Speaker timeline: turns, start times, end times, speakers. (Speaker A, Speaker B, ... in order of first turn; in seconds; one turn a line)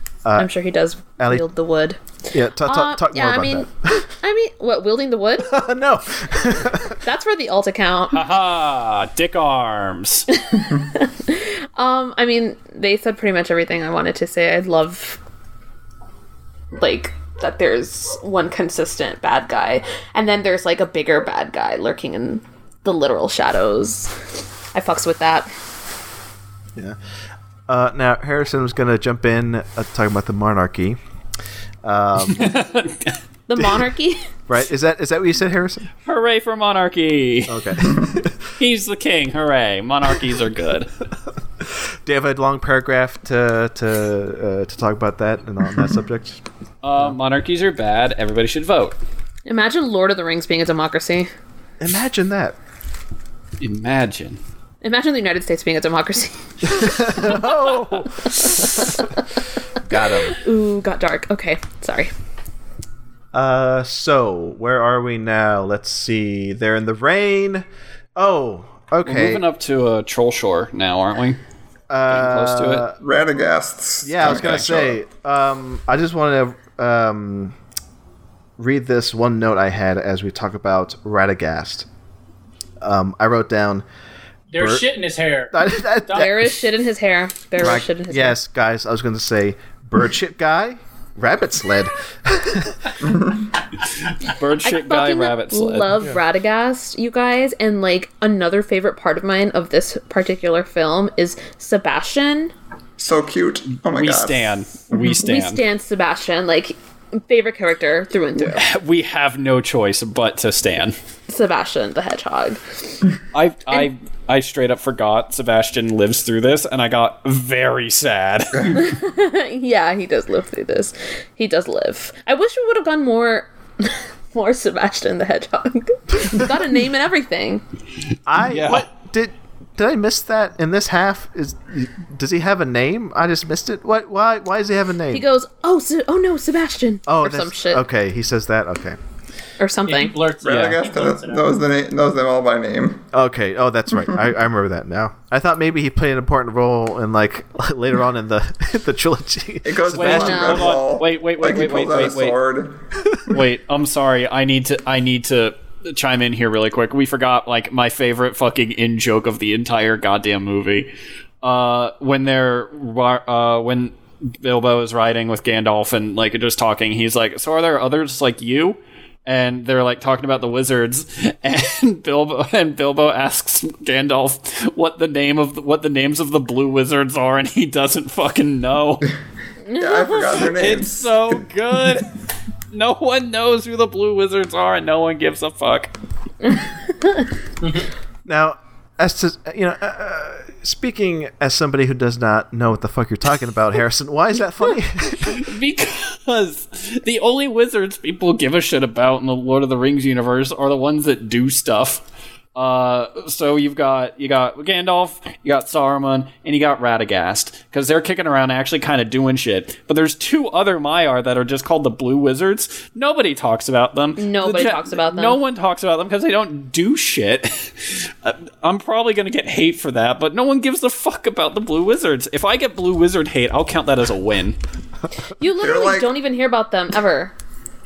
Speaker A: 0.4-2.0
Speaker B: 1.2-1.4
Speaker B: 2.3-4.1
Speaker A: 2.6-5.5
Speaker B: 5.5-7.0
Speaker A: 6.9-8.2
Speaker C: 8.1-10.3
Speaker A: 10.4-15.2
Speaker A: 16.8-24.2
Speaker A: 24.7-25.5
Speaker B: 27.7-31.0
Speaker B: 31.8-32.6
Speaker C: 32.3-33.2
Speaker A: 33.5-34.2
Speaker B: 34.5-35.9
Speaker C: 36.1-38.0
Speaker B: 37.5-38.5
Speaker C: 38.6-40.9
Speaker B: 41.6-46.4
Speaker C: 46.8-49.0
Speaker A: 49.5-51.3
Speaker B: 51.8-52.6
Speaker C: 53.6-54.4
Speaker A: 54.8-57.3
Speaker B: 56.6-58.6
Speaker A: 58.5-59.2
Speaker B: 59.8-60.4
Speaker A: 60.3-62.1
Speaker B: 63.3-69.4
Speaker C: 69.0-71.4
Speaker B: 71.9-73.0
Speaker C: 72.1-72.9
Speaker D: 73.0-74.9
Speaker B: 74.0-77.5
Speaker C: 74.2-74.8
Speaker B: 78.6-81.9
Speaker B: 82.8-83.8
Speaker E: 84.5-86.3
Speaker B: 84.6-84.8
Speaker B: 85.5-86.5
Speaker A: 86.1-88.4
Speaker B: 87.6-93.0
Speaker D: 93.0-93.5
Speaker C: 94.1-95.9
Speaker A: 94.6-102.5
Speaker D: 103.0-105.2
Speaker C: 103.8-105.6
Speaker A: 105.0-108.6
Speaker C: 108.4-111.0
Speaker A: 111.3-113.1
Speaker C: 113.3-118.8
Speaker A: 118.7-127.6
Speaker B: 128.3-135.3
Speaker C: 128.4-128.9
Speaker A: 135.1-137.8
Speaker B: 137.1-139.0
Speaker A: 139.6-140.2
Speaker E: 139.9-141.5
Speaker D: 140.4-143.1
Speaker B: 143.1-150.7
Speaker D: 149.7-152.8
Speaker C: 149.9-152.4
Speaker A: 150.1-150.7
Speaker C: 153.3-160.9
Speaker C: 161.4-179.1
Speaker A: 179.7-180.5
Speaker D: 179.8-181.4
Speaker C: 180.5-182.1
Speaker C: 182.7-185.9
Speaker A: 186.5-187.2
Speaker E: 187.6-187.9
Speaker B: 188.3-195.5
Speaker C: 195.3-202.0
Speaker C: 202.6-224.6
Speaker A: 214.2-215.4
Speaker A: 225.4-227.3
Speaker D: 225.6-226.1